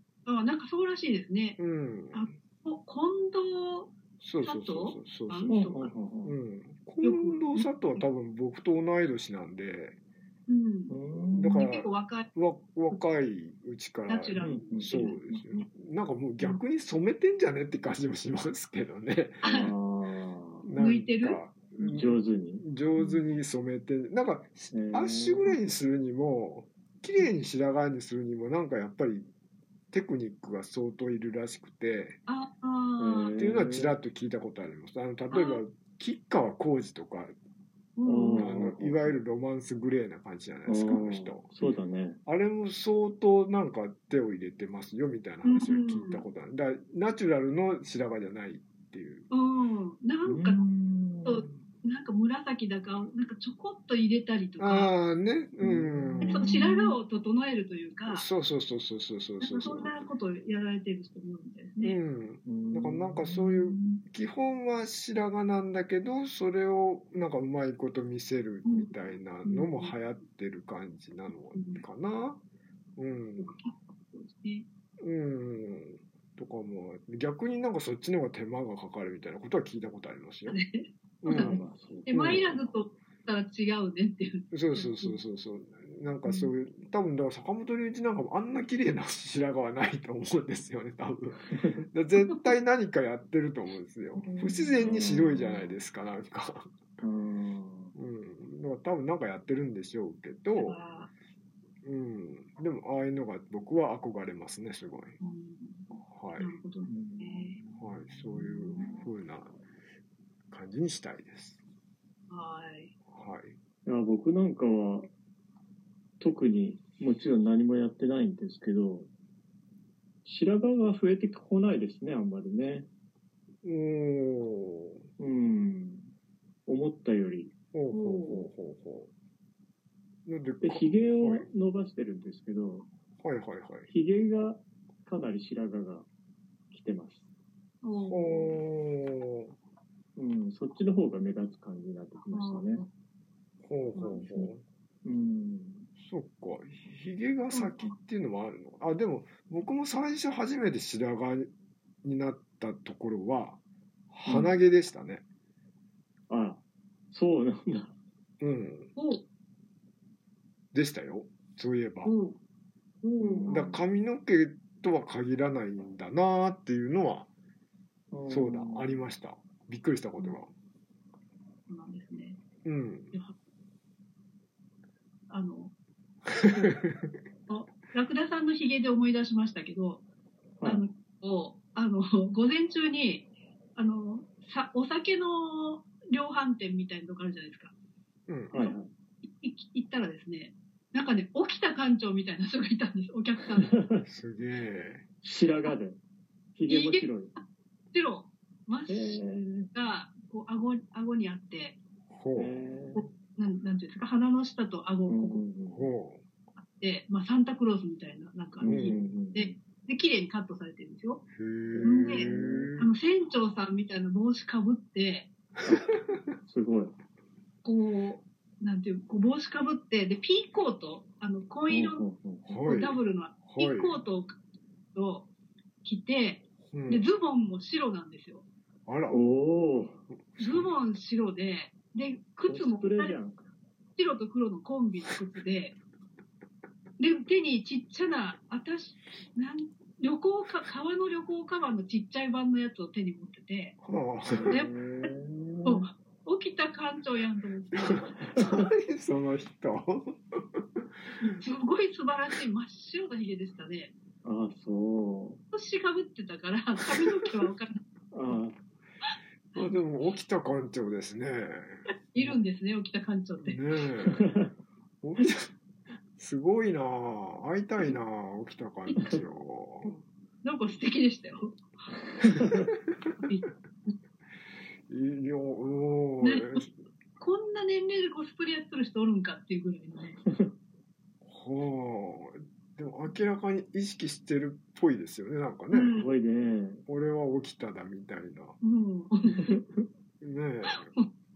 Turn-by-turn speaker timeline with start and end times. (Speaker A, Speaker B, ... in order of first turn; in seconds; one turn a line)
Speaker A: 0.2-1.6
Speaker B: 1.6-2.3
Speaker A: 2.1-5.9
Speaker B: 4.2-10.0
Speaker C: 5.5-6.4
Speaker A: 7.0-8.0
Speaker A: 10.5-12.3
Speaker C: 10.9-11.6
Speaker B: 11.4-19.7
Speaker A: 14.1-15.2
Speaker C: 14.4-15.4
Speaker A: 19.4-19.7
Speaker C: 19.5-20.7
Speaker B: 20.6-29.3
Speaker A: 20.8-22.1
Speaker C: 21.9-22.6
Speaker A: 23.0-23.2
Speaker C: 24.7-25.5
Speaker B: 29.9-32.2
Speaker A: 32.3-33.4
Speaker C: 33.0-34.0
Speaker B: 33.4-37.3
Speaker A: 35.3-35.6
Speaker A: 38.0-38.5
Speaker C: 38.0-39.2
Speaker B: 38.3-41.5
Speaker C: 40.7-42.2
Speaker B: 42.3-49.3
Speaker A: 45.4-46.3
Speaker A: 49.3-50.6
Speaker C: 50.3-51.5
Speaker A: 51.2-54.9
Speaker B: 54.6-56.5
Speaker C: 55.6-57.0
Speaker A: 56.2-58.3
Speaker B: 58.1-60.0
Speaker A: 59.4-62.0
Speaker B: 61.8-72.4
Speaker C: 62.5-63.5
Speaker A: 63.6-64.0
Speaker A: 68.7-68.9
Speaker A: 69.4-70.0
Speaker A: 71.5-71.8
Speaker B: 73.0-73.5
Speaker A: 73.4-74.7
Speaker B: 75.0-80.6
Speaker A: 80.5-85.2
Speaker B: 81.2-82.6
Speaker C: 81.3-82.6
Speaker B: 84.5-96.7
Speaker A: 86.2-86.5
Speaker C: 91.5-91.8
Speaker A: 92.2-92.5
Speaker A: 94.2-94.9
Speaker C: 94.8-95.8
Speaker C: 97.0-97.9
Speaker B: 98.0-100.8
Speaker A: 100.6-101.1
Speaker B: 101.8-105.2
Speaker A: 105.2-107.6
Speaker B: 106.1-106.5
Speaker C: 106.9-108.8
Speaker B: 107.7-109.5
Speaker A: 108.8-109.1
Speaker B: 110.5-111.6
Speaker A: 112.3-112.9
Speaker B: 113.1-113.6
Speaker C: 113.9-115.1
Speaker C: 116.2-119.1
Speaker C: 120.2-122.9
Speaker B: 123.6-125.0
Speaker C: 125.2-126.1
Speaker C: 126.7-127.5
Speaker B: 127.7-129.1
Speaker A: 127.9-128.5
Speaker B: 130.3-131.5
Speaker C: 130.6-132.9
Speaker B: 133.2-133.9
Speaker C: 133.9-136.1
Speaker C: 136.7-137.2
Speaker A: 137.8-138.6
Speaker B: 137.9-139.5
Speaker C: 140.2-142.8
Speaker A: 142.2-142.9
Speaker B: 143.6-144.6
Speaker A: 143.9-144.5
Speaker C: 145.1-145.9
Speaker B: 146.0-151.5
Speaker A: 147.5-147.9
Speaker B: 152.0-153.6
Speaker B: 154.1-155.2
Speaker C: 154.3-154.6
Speaker C: 156.3-156.6
Speaker C: 157.1-157.9
Speaker B: 158.4-158.9
Speaker A: 159.0-159.2
Speaker B: 160.7-162.1
Speaker A: 162.0-162.4
Speaker A: 163.0-163.6
Speaker C: 163.2-163.8
Speaker B: 163.5-167.3
Speaker C: 168.1-168.9
Speaker B: 168.3-170.5
Speaker A: 171.7-172.4
Speaker B: 172.7-173.1
Speaker A: 175.3-175.7
Speaker A: 177.5-180.0
Speaker A: 180.6-187.7
Speaker B: 188.3-188.5
Speaker C: 188.5-188.9
Speaker A: 188.5-193.7
Speaker C: 193.6-194.0
Speaker B: 194.0-195.1
Speaker C: 195.2-196.0
Speaker C: 196.6-197.3
Speaker A: 196.7-197.4
Speaker A: 197.9-199.2
Speaker C: 198.9-199.7
Speaker A: 199.7-201.8
Speaker B: 202.1-202.6
Speaker C: 202.3-203.1
Speaker A: 202.9-205.4
Speaker C: 205.1-205.9
Speaker B: 205.7-206.2
Speaker A: 206.6-211.2
Speaker C: 208.6-209.6
Speaker B: 208.6-209.0
Speaker B: 211.3-212.9
Speaker C: 211.7-212.7
Speaker A: 211.8-215.3
Speaker C: 215.6-216.9
Speaker A: 217.6-222.0
Speaker C: 221.7-222.6
Speaker B: 222.5-224.0
Speaker A: 222.6-224.4
Speaker A: 224.9-225.3
Speaker A: 225.8-228.5
Speaker B: 226.7-227.1
Speaker B: 228.9-229.2
Speaker C: 229.1-230.0
Speaker B: 230.3-230.7
Speaker A: 230.4-233.2
Speaker C: 232.5-233.5
Speaker A: 234.0-235.8
Speaker A: 237.0-243.8
Speaker B: 243.8-245.0
Speaker C: 244.3-245.9
Speaker A: 245.7-248.2
Speaker C: 248.2-248.6
Speaker B: 248.4-250.8
Speaker A: 251.2-253.9
Speaker C: 254.2-255.4
Speaker A: 255.5-257.8
Speaker C: 258.1-258.6
Speaker B: 259.6-262.4
Speaker A: 262.1-263.6
Speaker B: 263.4-264.2
Speaker C: 264.1-264.4
Speaker B: 265.0-265.5
Speaker B: 266.2-270.0
Speaker A: 270.4-271.7
Speaker A: 273.2-273.9
Speaker B: 274.9-276.7
Speaker A: 276.2-276.6
Speaker A: 277.2-280.2
Speaker B: 281.2-286.0
Speaker A: 285.7-286.1
Speaker C: 285.9-286.8
Speaker B: 286.9-288.6
Speaker A: 288.6-289.6
Speaker B: 290.2-290.9
Speaker A: 290.7-291.1